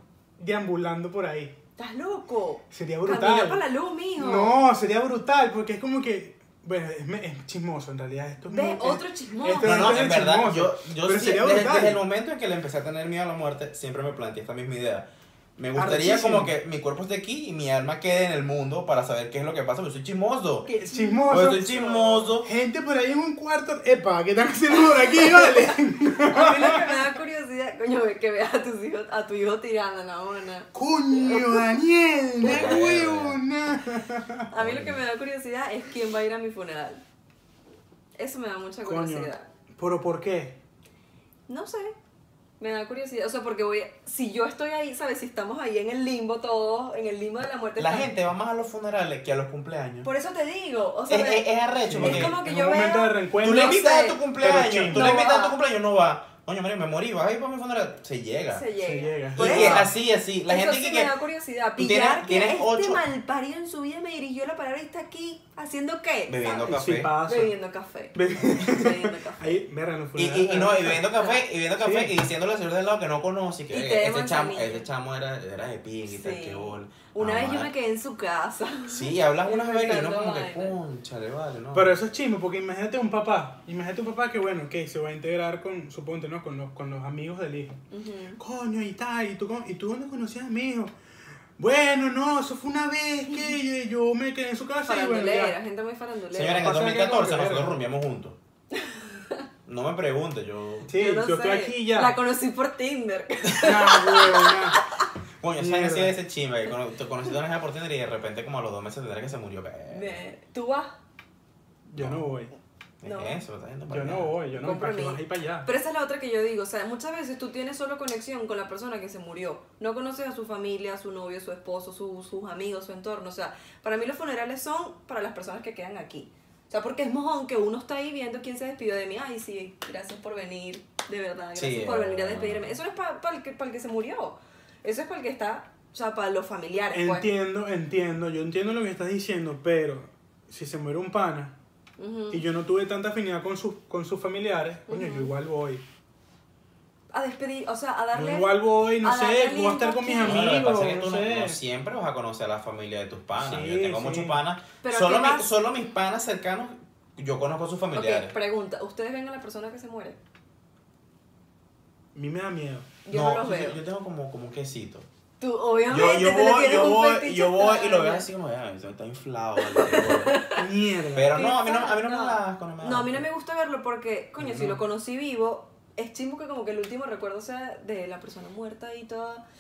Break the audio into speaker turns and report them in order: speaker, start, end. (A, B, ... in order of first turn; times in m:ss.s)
0:00.4-0:01.6 A
0:01.8-0:04.6 B
0:02.7-0:03.6 A
0:04.2-0:12.0 A
0:08.5-0:10.0 B
0:09.6-0:20.7 C
0:15.8-0:16.5 A
0:20.7-0:22.3 B
0:20.8-0:21.7 A
0:21.3-0:22.5 C
0:22.4-0:27.2 A
0:25.1-0:25.7 B
0:26.3-0:31.8 B
0:30.7-0:34.5 A
0:32.4-0:32.8 B
0:32.4-0:33.4 C
0:34.5-0:37.0 B
0:34.6-0:35.0 C
0:38.2-0:39.5 B
0:38.8-0:40.6 A
0:41.5-0:42.0 B
0:42.6-0:48.1 B
0:47.8-0:50.1 C
0:50.0-0:54.2 B
0:51.1-0:52.4 C
0:51.9-0:53.8 A
0:53.4-0:58.6 C
0:54.4-0:55.2 A
0:54.9-0:55.6 B
0:58.5-0:59.9 B
0:58.8-0:59.9 A
0:59.4-1:01.1 C
1:00.5-1:09.6 B
1:01.8-1:03.0 C
1:06.3-1:07.1 C
1:06.7-1:07.6 A
1:08.2-1:11.0 A
1:10.2-1:17.7 C
1:10.9-1:11.5 B
1:11.8-1:12.1 A
1:13.7-1:14.8 B
1:16.1-1:20.8 B
1:18.9-1:22.0 C
1:21.7-1:27.8 A
1:27.9-1:28.4 B
1:28.4-1:30.9 A
1:31.6-1:35.6 A
1:34.9-1:36.7 B
1:36.3-1:38.4 C
1:36.5-1:37.8 A
1:38.7-1:39.4 B
1:39.7-1:40.9 C
1:40.9-1:42.2 A
1:40.9-1:45.0 B
1:43.5-1:44.8 A
1:45.4-1:50.2 C
1:45.6-1:46.2 A
1:49.9-1:50.9 B
1:51.9-1:52.5 A
1:52.0-1:52.3 C
1:53.0-1:54.4 C
1:53.0-1:53.4 B
1:53.9-1:55.7 A
1:54.5-2:17.3 B
2:11.6-2:12.7 C
2:16.9-2:21.6 A
2:22.0-2:22.4 B
2:22.3-2:25.8 A
2:24.9-2:25.3 B
2:27.1-2:30.6 B
2:28.1-2:31.6 A
2:30.2-2:38.3 C
2:33.4-2:34.4 A
2:34.8-2:35.5 B
2:38.0-2:40.2 B
2:42.2-2:42.9 A
2:43.0-2:43.8 B
2:43.1-2:45.1 C
2:45.4-2:48.3 B
2:45.9-2:50.4 C
2:49.6-2:50.6 B
2:50.6-2:51.4 A
2:51.1-2:53.3 C
2:51.3-2:59.4 B
2:54.4-2:54.8 A